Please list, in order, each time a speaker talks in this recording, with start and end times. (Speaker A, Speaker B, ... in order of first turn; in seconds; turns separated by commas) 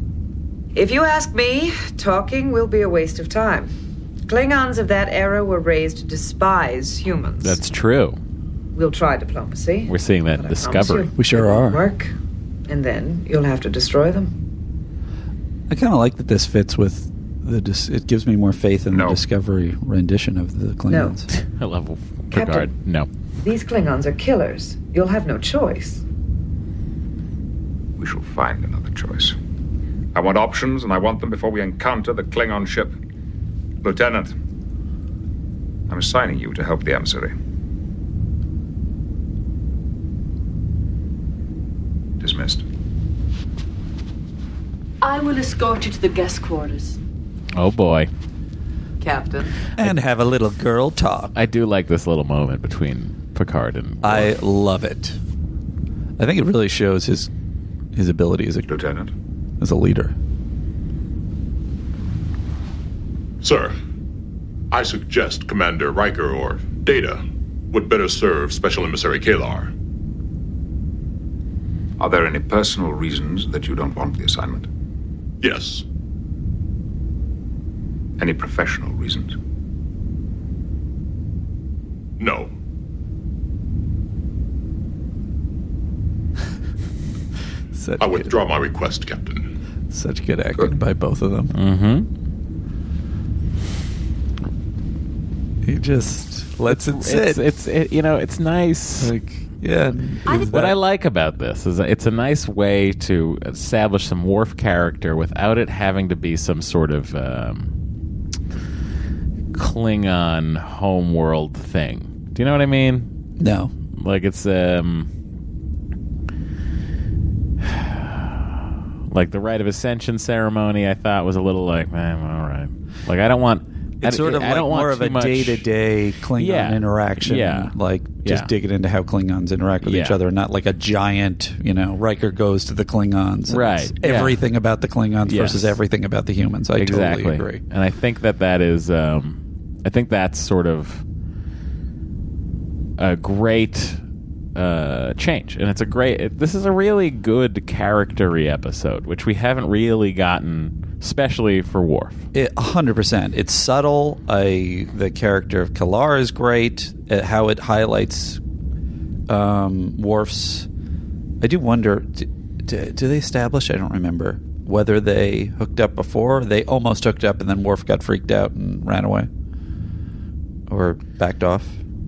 Speaker A: 0.8-3.7, Speaker A: 4.3-7.6, Speaker B: 7.4-8.2, Speaker A: 8.8-12.1, Speaker B: 9.9-11.1, Speaker C: 11.2-11.8, Speaker A: 12.7-14.3, Speaker C: 15.7-21.3, Speaker D: 18.9-19.2, Speaker A: 20.9-21.2, Speaker B: 21.3-23.1, Speaker A: 22.3-22.7, Speaker A: 23.4-26.0, Speaker D: 28.0-29.4, Speaker D: 30.1-33.0, Speaker D: 33.8-34.3, Speaker D: 35.9-37.3, Speaker D: 42.2-42.6, Speaker E: 45.0-47.0, Speaker B: 47.5-48.1, Speaker A: 49.0-49.6, Speaker C: 49.8-51.3, Speaker B: 51.4-54.4, Speaker C: 54.0-55.2, Speaker C: 56.2-57.3, Speaker C: 57.9-58.7, Speaker D: 58.7-59.1, Speaker C: 59.6-60.1, Speaker F: 63.4-63.7, Speaker F: 64.7-69.7, Speaker D: 72.0-74.7, Speaker F: 75.4-75.8, Speaker D: 78.2-79.3, Speaker F: 82.2-82.5, Speaker C: 87.7-88.4, Speaker F: 88.0-89.5, Speaker C: 89.9-91.5, Speaker B: 91.5-92.1, Speaker C: 95.6-97.4, Speaker B: 96.7-99.3, Speaker C: 99.0-100.8, Speaker A: 100.3-100.6, Speaker B: 100.5-107.7, Speaker B: 109.5-113.1, Speaker C: 113.4-113.7, Speaker B: 114.0-115.1, Speaker B: 117.6-118.3, Speaker B: 119.1-125.7, Speaker C: 124.0-137.6, Speaker B: 126.4-128.5, Speaker B: 129.8-130.2, Speaker B: 133.5-134.4, Speaker B: 135.3-135.8, Speaker B: 136.8-141.0, Speaker B: 143.0-144.0, Speaker B: 144.6-152.2, Speaker C: 152.3-158.4, Speaker C: 159.3-160.7, Speaker C: 161.4-169.3, Speaker C: 170.7-171.8